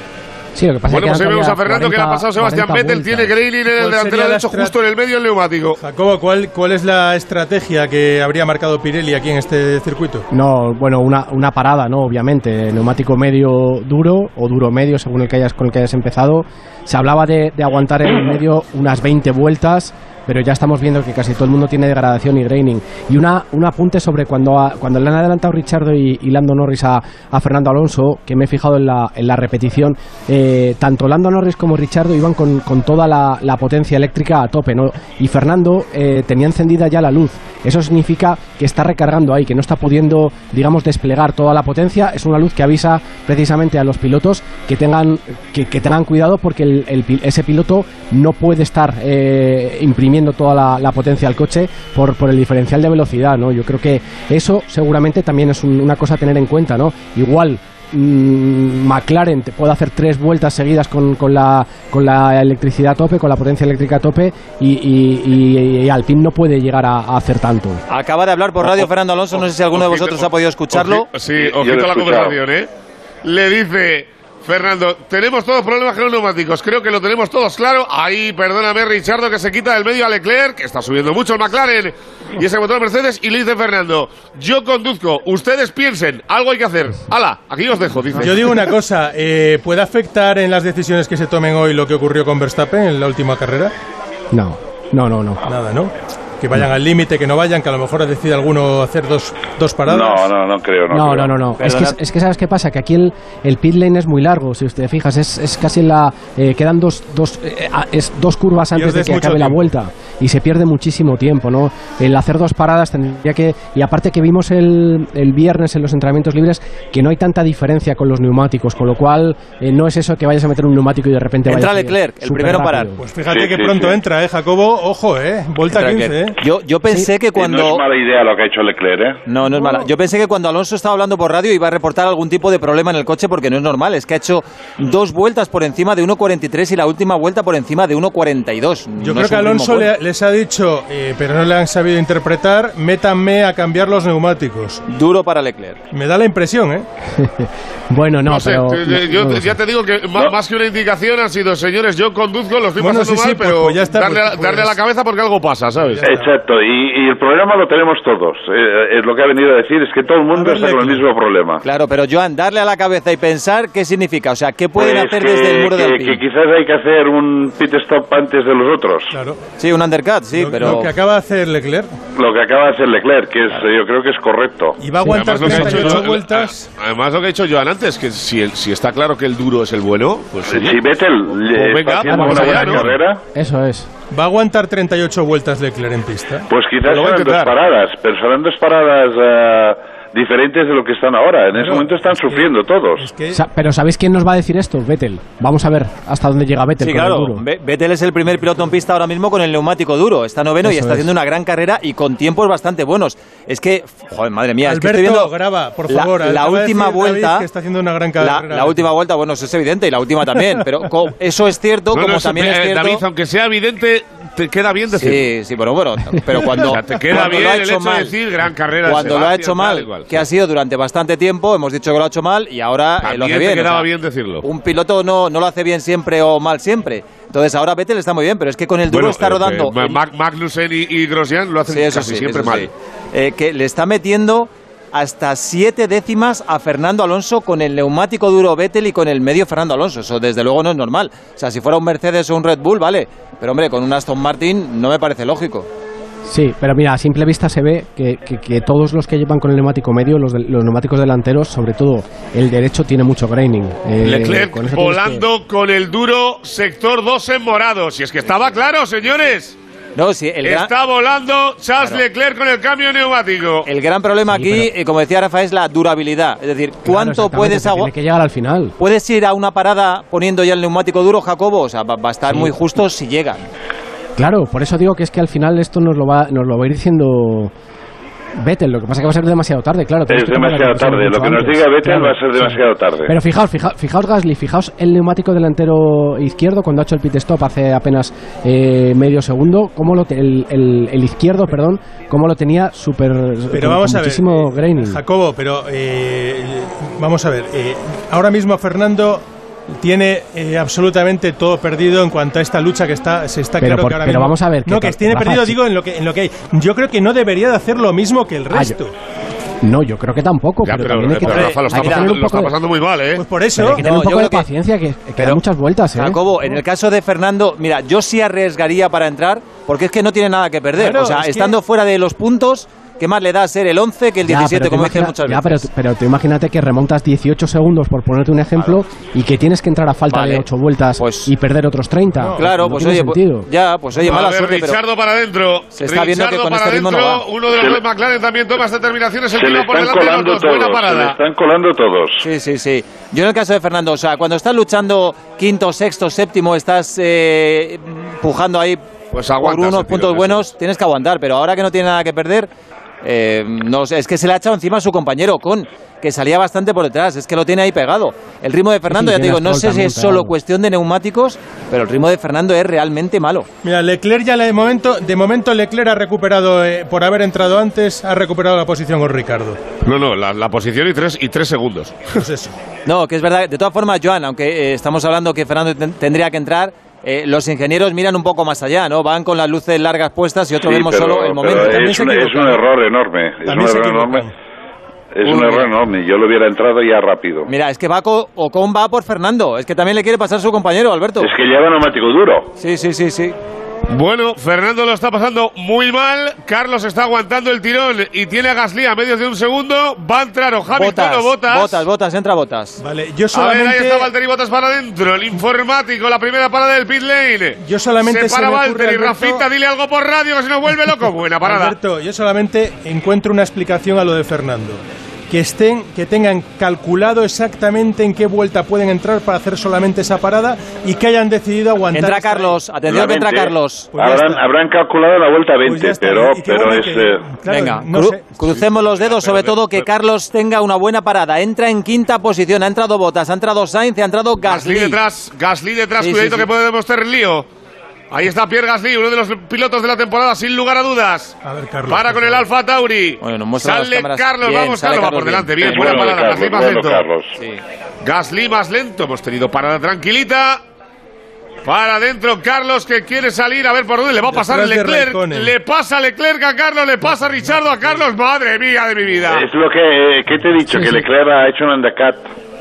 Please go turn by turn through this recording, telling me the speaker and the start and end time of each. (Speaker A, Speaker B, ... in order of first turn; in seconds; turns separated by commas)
Speaker A: 0.6-3.3, Speaker B: 0.9-5.8, Speaker C: 3.7-4.7, Speaker C: 5.8-10.2, Speaker A: 10.3-67.8, Speaker D: 67.9-71.1, Speaker B: 68.6-72.7, Speaker E: 71.4-72.4, Speaker B: 73.2-88.5, Speaker C: 88.2-93.7, Speaker A: 94.3-95.4, Speaker C: 95.5-100.3, Speaker E: 99.8-101.3, Speaker A: 100.9-123.0, Speaker D: 101.6-102.0, Speaker C: 108.8-109.7, Speaker D: 121.5-122.9, Speaker C: 123.0-126.3, Speaker E: 123.3-124.0, Speaker D: 125.7-127.8, Speaker E: 127.3-129.2, Speaker D: 129.3-139.9, Speaker C: 129.4-129.9, Speaker C: 139.0-144.8, Speaker D: 144.9-145.8, Speaker C: 145.9-146.9, Speaker A: 147.2-149.6, Speaker B: 148.3-156.0, Speaker C: 152.8-154.7, Speaker C: 155.8-156.3, Speaker E: 156.0-161.6, Speaker C: 160.3-161.0, Speaker D: 161.6-166.2, Speaker E: 164.8-169.2, Speaker C: 169.1-169.4, Speaker D: 169.6-170.9, Speaker C: 170.4-171.9, Speaker E: 172.2-174.8, Speaker C: 174.8-176.7, Speaker B: 175.1-180.8, Speaker D: 175.3-176.1, Speaker E: 180.5-183.2, Speaker B: 181.5-182.9, Speaker A: 182.1-183.9, Speaker C: 184.1-186.5, Speaker E: 186.5-193.1, Speaker B: 186.8-187.6, Speaker C: 191.6-193.4, Speaker A: 193.3-197.4, Speaker D: 196.8-205.3, Speaker A: 200.6-201.1, Speaker C: 204.6-208.9, Speaker D: 205.9-207.5, Speaker D: 208.2-213.0, Speaker C: 210.4-210.6, Speaker B: 211.9-215.3, Speaker D: 215.0-218.2, Speaker C: 216.4-216.8, Speaker B: 216.6-220.2, Speaker D: 218.8-223.9, Speaker B: 223.0-224.4, Speaker D: 224.4-230.0, Speaker B: 228.9-232.7, Speaker D: 231.7-245.7, Speaker A: 246.3-255.2, Speaker B: 254.0-259.6, Speaker D: 260.0-260.7, Speaker B: 260.4-263.7, Speaker D: 263.7-267.9, Speaker A: 264.3-264.7, Speaker A: 266.9-268.7, Speaker D: 268.8-273.4, Speaker A: 274.2-277.5, Speaker A: 278.4-295.0, Speaker E: 280.1-283.1, Speaker C: 293.5-308.9, Speaker A: 303.6-305.6, Speaker A: 308.5-308.8, Speaker A: 309.6-312.5, Speaker B: 310.6-313.2, Speaker D: 311.3-312.1, Speaker C: 311.3-311.7, Speaker C: 313.2-313.8, Speaker A: 313.6-316.2, Speaker D: 313.6-314.5, Speaker D: 315.9-325.7, Speaker C: 320.8-321.6, Speaker A: 324.3-333.5, Speaker D: 330.1-330.5, Speaker D: 331.0-331.3, Speaker C: 332.2-332.5, Speaker D: 332.4-334.8, Speaker B: 334.1-341.2, Speaker D: 335.7-337.2, Speaker E: 337.5-337.8, Speaker E: 339.3-342.2, Speaker D: 342.2-348.8, Speaker B: 349.1-350.5, Speaker D: 349.4-352.5, Speaker D: 353.0-363.5, Speaker A: 358.9-360.3, Speaker C: 363.6-369.6, Speaker B: 369.8-372.2, Speaker C: 372.1-372.6, Speaker D: 372.9-381.9, Speaker E: 380.6-384.3, Speaker C: 381.4-382.6, Speaker C: 383.5-384.3, Speaker E: 385.1-387.5, Speaker D: 385.2-385.7, Speaker D: 387.5-391.3, Speaker E: 391.2-392.5, Speaker D: 392.6-393.4, Speaker B: 393.9-401.9, Speaker D: 400.8-402.8, Speaker C: 402.8-404.1, Speaker B: 403.3-411.8, Speaker C: 407.6-409.4, Speaker C: 411.4-422.6, Speaker D: 421.9-423.9, Speaker E: 422.9-427.2, Speaker C: 423.9-424.4, Speaker C: 425.6-428.2, Speaker D: 427.4-435.0, Speaker B: 428.4-429.9, Speaker B: 434.4-437.5, Speaker D: 436.0-436.5, Speaker B: 438.1-441.4, Speaker C: 441.4-442.5, Speaker B: 441.9-447.1, Speaker D: 443.2-446.1, Speaker E: 445.6-447.4, Speaker B: 448.0-450.6, Speaker B: 451.6-459.5, Speaker C: 454.3-455.5, Speaker C: 457.4-458.0, Speaker E: 459.2-462.3, Speaker A: 460.7-461.0